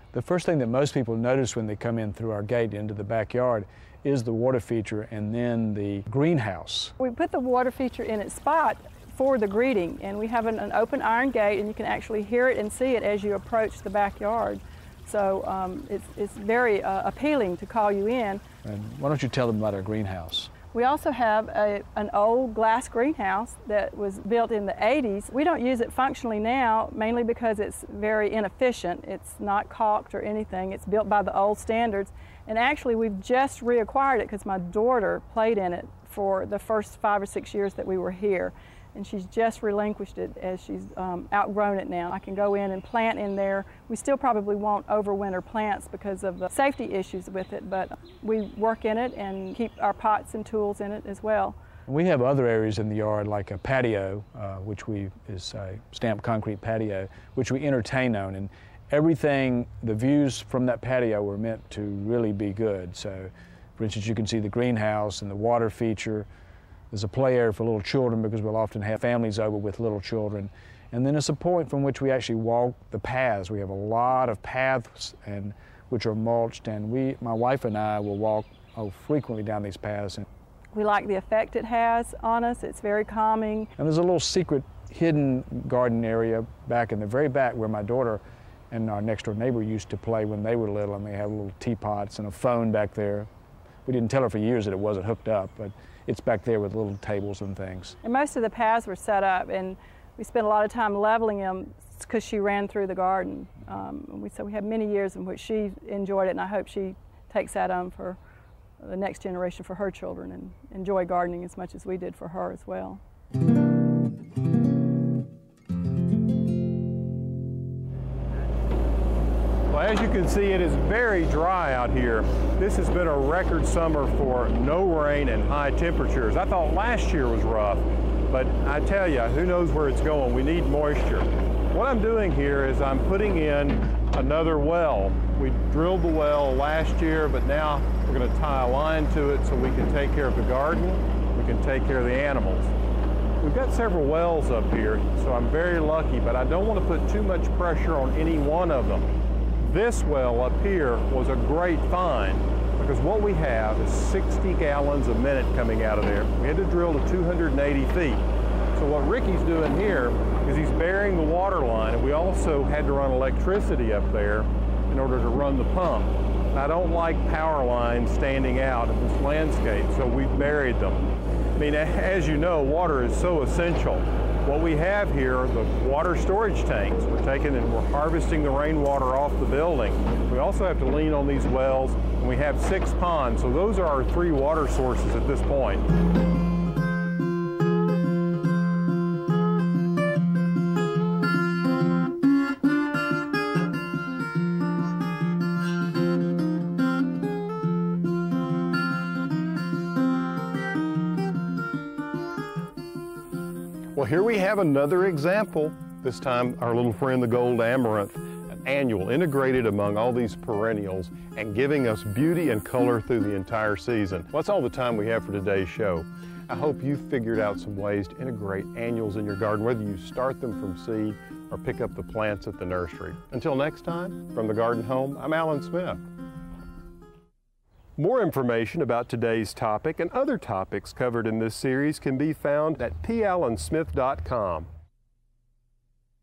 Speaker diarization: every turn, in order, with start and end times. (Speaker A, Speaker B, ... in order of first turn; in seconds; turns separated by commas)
Speaker A: 0.1-6.9, Speaker B: 7.0-18.4, Speaker A: 18.6-20.5, Speaker B: 20.7-51.6, Speaker A: 51.9-66.3, Speaker A: 66.9-80.2, Speaker B: 80.7-83.7, Speaker A: 83.8-93.3, Speaker A: 93.8-98.0, Speaker B: 98.0-108.2, Speaker B: 108.8-113.0, Speaker C: 119.7-142.7, Speaker C: 143.4-185.9, Speaker C: 203.9-226.0, Speaker C: 228.0-234.7